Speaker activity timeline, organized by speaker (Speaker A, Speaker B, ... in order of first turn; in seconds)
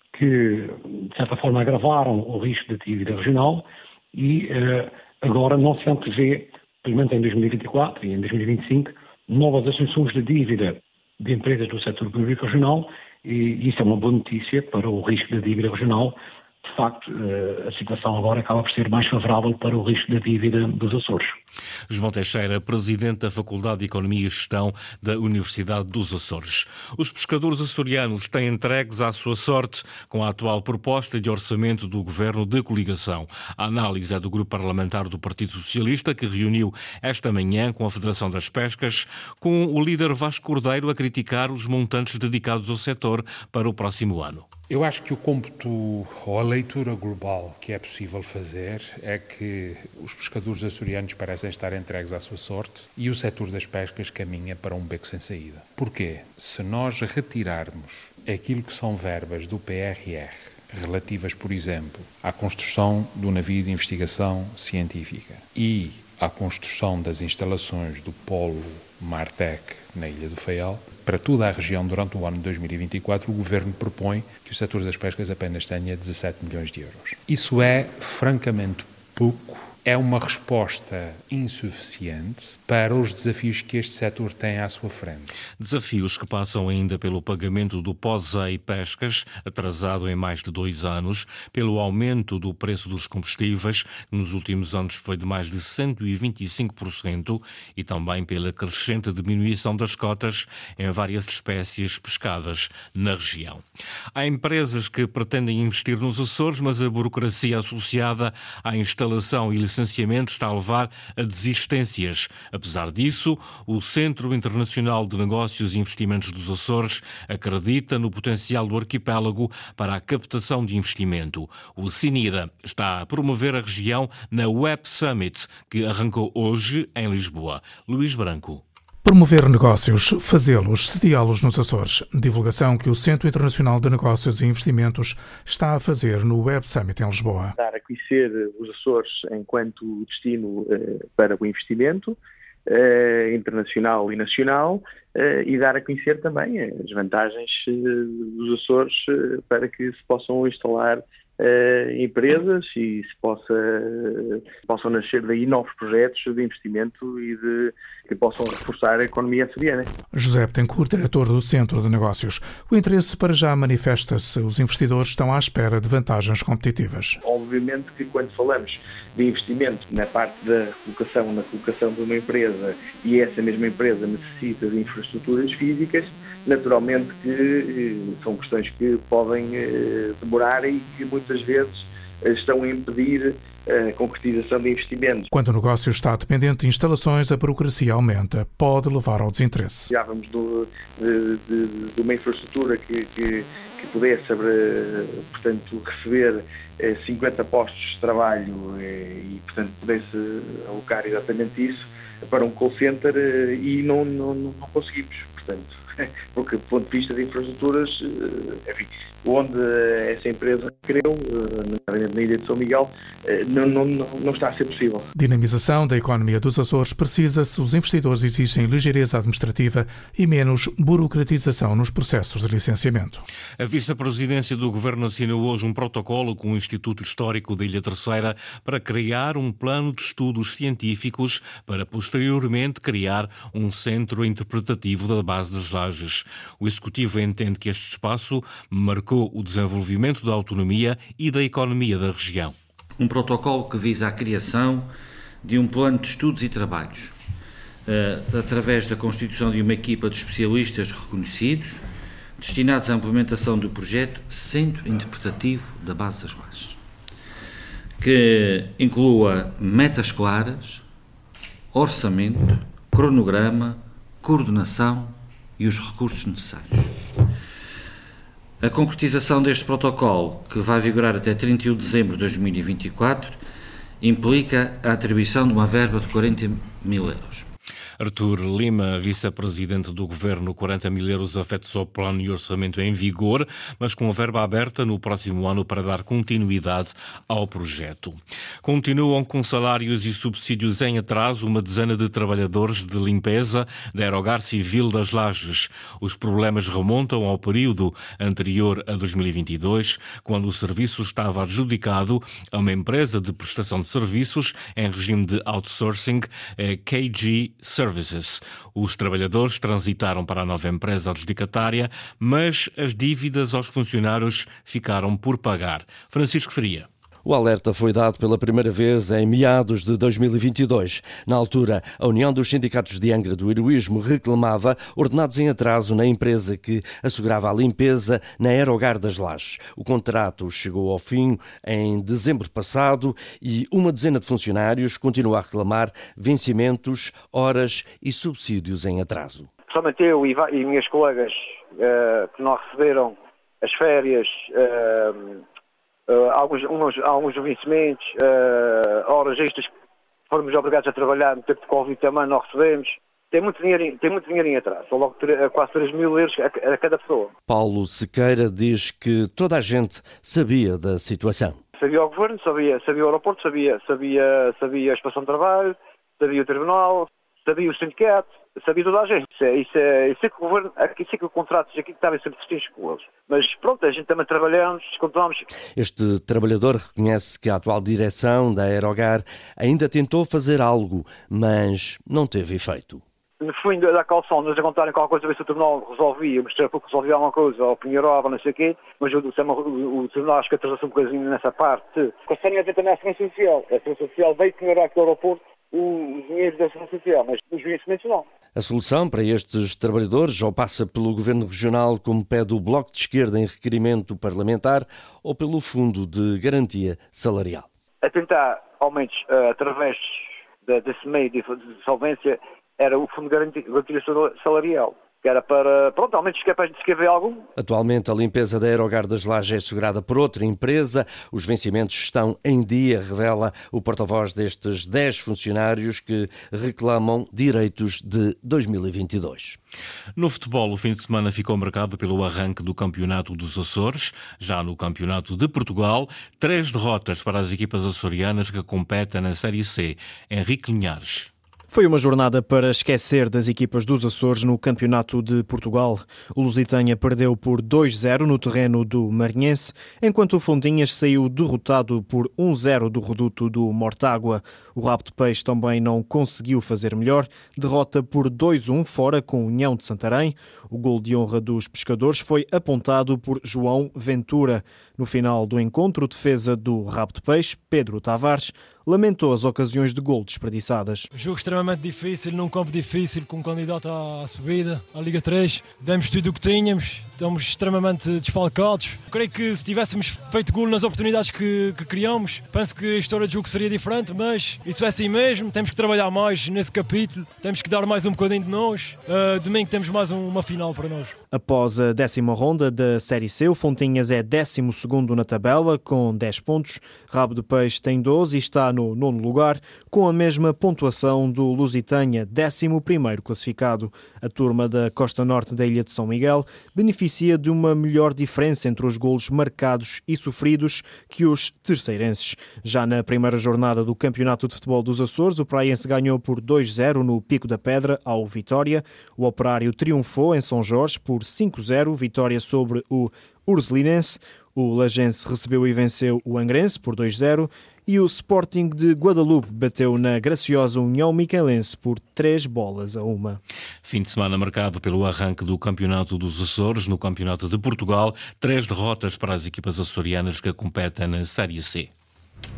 Speaker A: 0.1-21.4
Speaker B: 21.9-44.5, 85.6-103.6, 104.2-128.6, 223.6-242.5, 278.0-316.9, 430.2-441.3, 533.9-541.9
Speaker C: 44.7-85.4
Speaker D: 129.1-137.6, 160.1-167.2, 185.3-189.9, 215.2-223.2
Speaker E: 137.6-142.2, 142.7-159.9, 167.2-185.3, 189.9-215.1
Speaker F: 243.0-244.9, 245.4-247.2, 247.9-251.8, 252.4-256.8, 258.0-260.8, 261.7-266.9, 268.6-273.4, 274.0-277.4
Speaker G: 317.2-339.5, 357.5-361.6, 375.8-383.0, 398.6-407.7, 417.6-429.6
Speaker H: 339.7-345.4, 346.1-349.7, 350.3-357.3, 361.8-375.4, 383.4-398.3, 408.0-417.4
Speaker I: 441.7-471.1, 491.3-533.4
Speaker J: 471.1-491.1